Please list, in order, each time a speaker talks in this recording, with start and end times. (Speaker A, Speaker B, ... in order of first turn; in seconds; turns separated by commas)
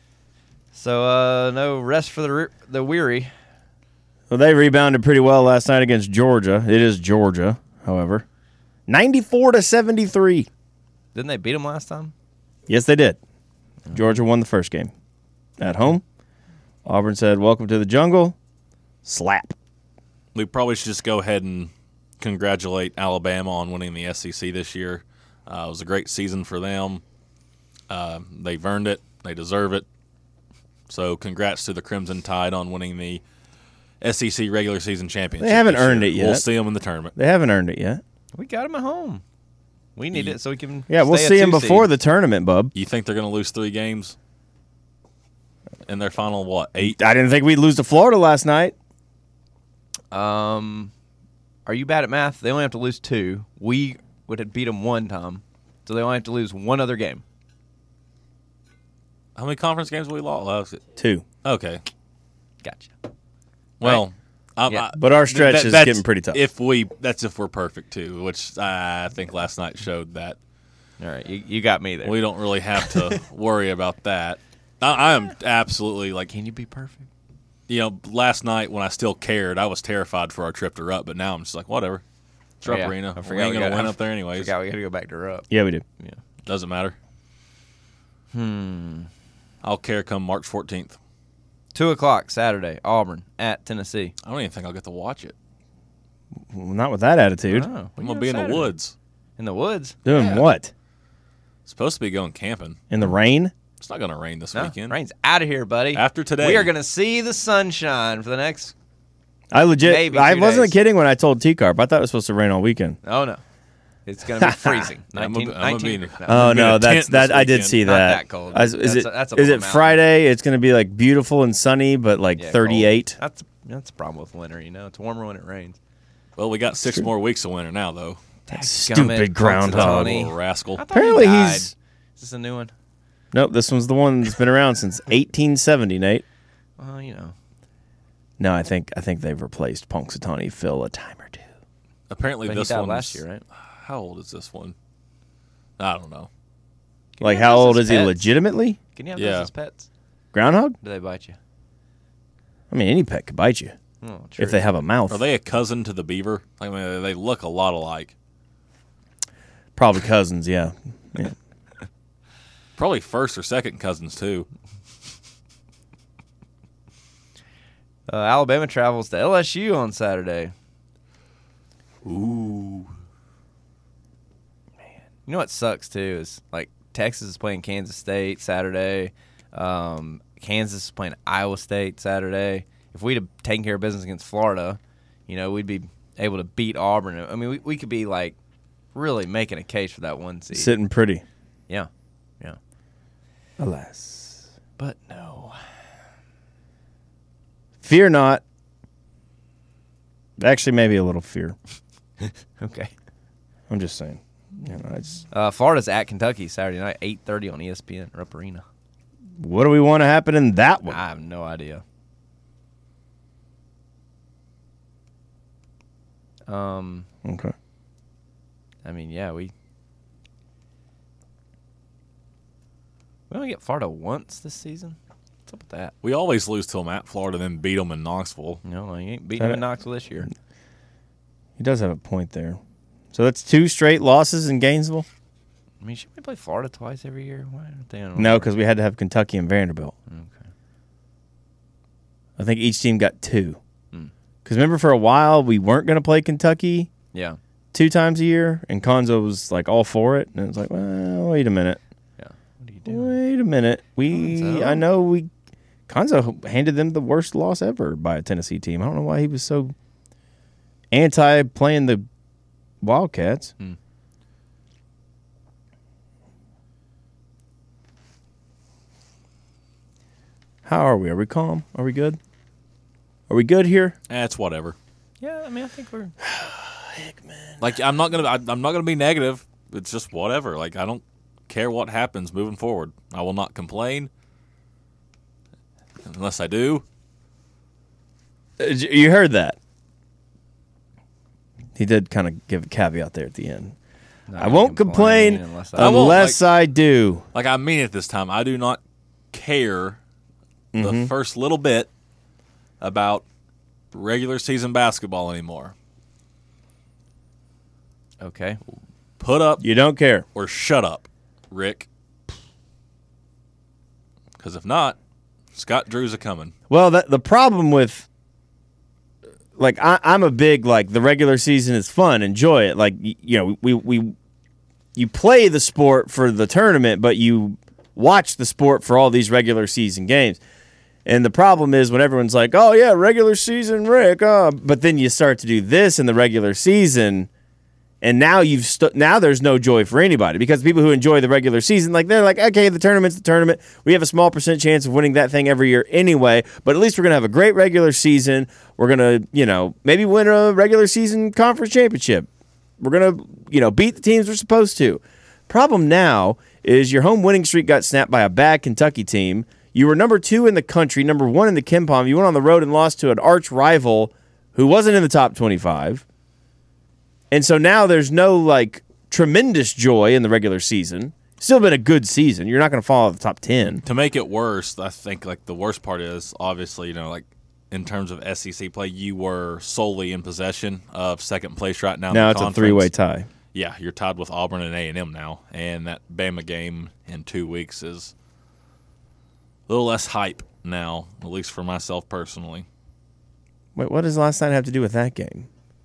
Speaker A: 0.7-3.3, Speaker B: 4.3-8.2, Speaker B: 8.9-10.5, Speaker A: 11.1-12.1, Speaker B: 12.7-13.2, Speaker B: 13.9-14.9, Speaker B: 15.6-16.0, Speaker B: 16.8-18.4, Speaker B: 19.0-19.6, Speaker C: 20.3-27.0, Speaker C: 27.9-29.9, Speaker C: 30.9-33.2, Speaker C: 34.0-37.1, Speaker B: 35.4-36.4, Speaker B: 37.1-38.0, Speaker A: 38.3-39.2, Speaker A: 40.0-41.9, Speaker B: 40.9-42.7, Speaker C: 42.7-44.1, Speaker C: 45.9-47.0, Speaker B: 46.8-48.7, Speaker A: 50.1-50.9, Speaker A: 51.6-57.2, Speaker C: 59.4-60.8, Speaker B: 61.0-61.2, Speaker C: 61.4-61.8, Speaker A: 62.6-62.9, Speaker C: 63.8-70.4, Speaker B: 65.0-66.4, Speaker A: 71.0-72.2, Speaker C: 72.0-76.3, Speaker A: 72.8-73.2, Speaker A: 76.3-77.1, Speaker C: 77.7-82.0, Speaker C: 82.6-84.5, Speaker A: 82.6-85.5, Speaker B: 85.5-85.8, Speaker C: 86.4-86.9, Speaker A: 88.3-89.1, Speaker C: 89.6-91.0, Speaker A: 91.7-94.1, Speaker C: 94.2-95.3, Speaker B: 96.5-97.7, Speaker A: 97.5-98.7, Speaker C: 98.0-98.9, Speaker A: 99.4-100.0, Speaker B: 100.0-100.7, Speaker C: 100.1-100.4, Speaker C: 101.7-102.8, Speaker B: 102.9-103.5, Speaker C: 103.8-105.0, Speaker A: 104.5-108.7, Speaker C: 105.9-106.7, Speaker B: 109.5-113.0, Speaker A: 109.8-110.8, Speaker A: 113.0-113.4, Speaker A: 114.0-116.8, Speaker B: 114.4-114.9, Speaker C: 115.1-117.8, Speaker B: 116.3-123.2, Speaker A: 117.8-120.0, Speaker A: 122.3-125.8, Speaker C: 126.3-128.2, Speaker A: 128.5-132.7, Speaker B: 128.5-130.3, Speaker C: 129.7-130.8, Speaker B: 130.9-131.7, Speaker B: 133.3-136.2, Speaker A: 136.8-137.3, Speaker B: 138.4-141.5, Speaker C: 142.1-144.7, Speaker A: 142.4-143.4, Speaker C: 145.8-146.3, Speaker A: 147.2-148.3, Speaker B: 147.2-148.8, Speaker A: 148.9-149.9, Speaker C: 149.2-149.5, Speaker B: 150.3-150.8, Speaker A: 150.8-151.4, Speaker B: 152.7-153.7, Speaker A: 154.0-154.8, Speaker B: 154.4-155.2, Speaker C: 155.1-158.1, Speaker B: 159.8-161.3, Speaker C: 162.8-164.5, Speaker A: 168.1-170.5, Speaker C: 172.0-172.9, Speaker A: 175.2-188.3, Speaker A: 188.9-190.7, Speaker B: 190.5-191.2, Speaker B: 193.6-194.4, Speaker A: 194.8-195.6, Speaker B: 197.8-198.4, Speaker B: 200.4-201.6, Speaker A: 202.2-202.9, Speaker B: 203.7-205.2, Speaker A: 205.3-208.6, Speaker B: 209.4-211.0, Speaker A: 210.9-211.8, Speaker A: 216.5-217.1, Speaker B: 217.2-217.5, Speaker A: 218.8-219.5, Speaker A: 223.3-225.9, Speaker C: 226.0-228.6, Speaker A: 228.6-230.3, Speaker B: 231.6-232.6, Speaker B: 233.1-235.1, Speaker A: 235.8-238.5, Speaker B: 238.2-239.9, Speaker A: 240.1-240.4, Speaker B: 242.4-243.6, Speaker B: 244.4-246.9, Speaker A: 247.1-247.4, Speaker B: 247.7-251.8, Speaker A: 252.2-253.2, Speaker B: 252.8-255.3, Speaker A: 254.1-254.8, Speaker B: 255.9-259.7, Speaker B: 260.9-262.0, Speaker B: 262.8-263.5, Speaker B: 270.6-272.2, Speaker B: 273.3-273.9, Speaker C: 274.1-274.8, Speaker A: 275.2-276.1, Speaker B: 276.2-277.7, Speaker C: 277.6-284.1, Speaker C: 286.0-286.8, Speaker B: 288.6-289.6, Speaker B: 291.8-293.7, Speaker A: 294.3-296.1, Speaker B: 294.4-297.2, Speaker C: 295.8-296.4, Speaker C: 297.3-298.8, Speaker C: 299.3-300.0, Speaker B: 300.7-301.1, Speaker C: 300.8-301.9, Speaker C: 302.8-303.2, Speaker C: 303.9-305.7, Speaker A: 308.2-308.6, Speaker C: 309.2-309.6, Speaker B: 309.6-310.2, Speaker C: 310.3-311.9, Speaker C: 314.4-314.9, Speaker C: 315.5-316.5, Speaker B: 316.7-318.1, Speaker B: 319.6-324.1, Speaker B: 324.9-330.4, Speaker B: 331.0-337.3, Speaker B: 338.0-352.3, Speaker B: 352.8-366.0, Speaker B: 367.3-373.8, Speaker C: 373.8-382.9, Speaker B: 382.1-383.3, Speaker C: 383.5-388.1, Speaker C: 389.7-392.6, Speaker B: 393.8-395.5